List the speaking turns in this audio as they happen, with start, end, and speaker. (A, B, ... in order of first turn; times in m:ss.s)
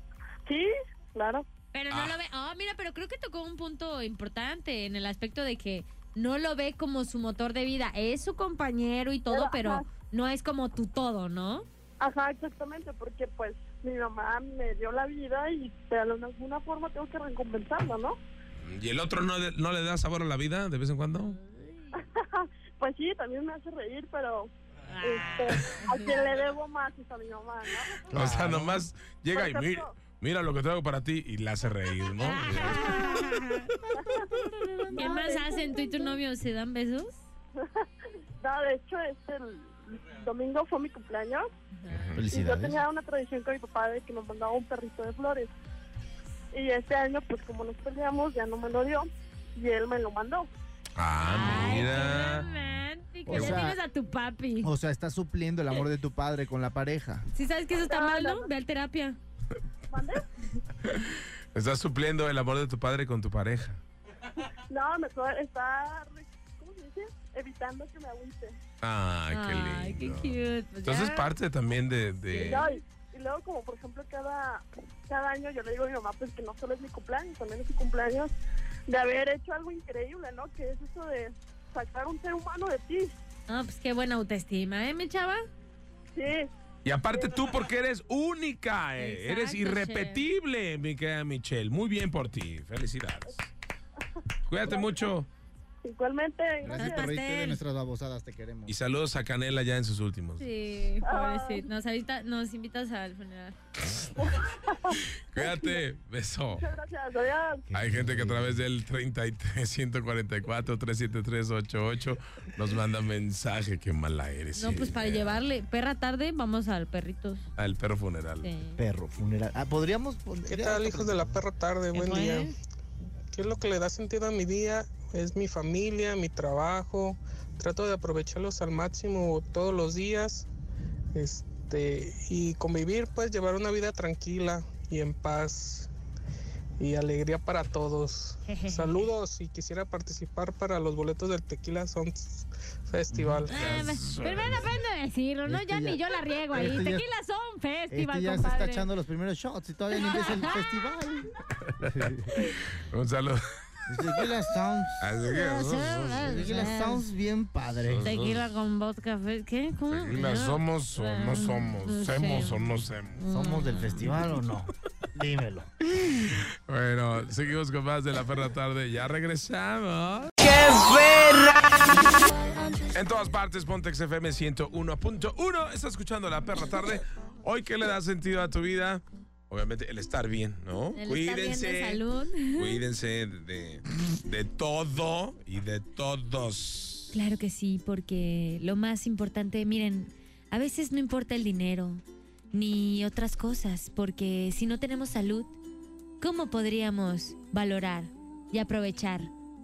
0:00.5-0:01.5 A
0:01.7-0:11.7 B
0:01.9-0:02.2 C
0:09.3-0:09.9 A
0:12.0-0:18.2 A
0:18.6-0:21.4 C
0:21.2-0:22.0 B
0:22.0-0:24.5 A
0:24.9-0:26.3 B
0:25.0-0:28.1 A
0:28.1-0:28.9 D
0:28.1-0:33.3 C
0:29.3-0:29.9 A
0:32.2-0:37.2 B
0:34.0-0:34.4 A
0:34.9-0:36.2 A
0:37.6-0:37.9 A
0:38.4-0:41.5 A
0:41.7-0:42.1 B
0:41.9-0:42.3 C
0:42.2-0:42.8 D
0:42.3-0:45.5 A
0:46.5-0:50.5 A
0:51.0-0:52.5 C
0:51.2-0:54.7 B
0:53.3-0:53.8 D
0:54.6-0:57.3 D
0:57.3-0:59.2 B
0:57.8-0:58.5 A
0:59.9-1:00.3 A
1:00.8-1:03.8 C
1:04.7-1:08.6 A
1:08.8-1:12.7 C
1:09.3-1:11.3 B
1:12.3-1:12.7 B
1:12.3-1:18.3 A
1:18.9-1:23.2 A
1:23.5-1:25.5 B
1:26.1-1:26.5 A
1:26.8-1:33.5 C
1:27.1-1:27.5 A
1:29.0-1:30.2 B
1:34.5-1:35.3 C
1:34.6-1:35.1 A
1:35.8-1:37.1 A
1:36.6-1:38.8 D
1:36.7-1:37.6 B
1:38.7-1:40.5 C
1:40.4-1:43.6 B
1:41.0-1:41.7 A
1:43.8-1:44.4 C
1:44.2-1:45.7 A
1:44.9-1:46.7 C
1:46.6-1:47.7 A
1:47.7-1:48.6 D
1:47.8-1:55.4 C
1:54.6-1:57.4 B
1:57.6-1:58.5 C
1:58.4-1:58.8 B
1:58.8-2:01.4 D
2:00.5-2:02.5 E
2:01.9-2:02.6 B
2:03.3-2:10.5 E
2:11.1-2:15.9 E
2:16.8-2:23.6 E
2:18.5-2:19.1 B
2:23.1-2:23.5 D
2:23.5-2:28.9 B
2:23.5-2:24.7 C
2:25.5-2:27.0 D
2:27.9-2:32.3 D
2:30.0-2:30.5 B
2:31.8-2:33.4 C
2:33.9-2:35.2 D
2:35.0-2:36.7 C
2:35.2-2:37.0 B
2:35.9-2:38.1 D
2:37.8-2:38.4 C
2:38.0-2:42.6 B
2:39.9-2:43.2 C
2:43.2-2:44.1 B
2:43.3-2:45.7 D
2:46.3-2:51.4 C
2:52.9-3:07.2 C
3:01.0-3:02.8 B
3:07.1-3:15.6 B
3:16.2-3:19.3 B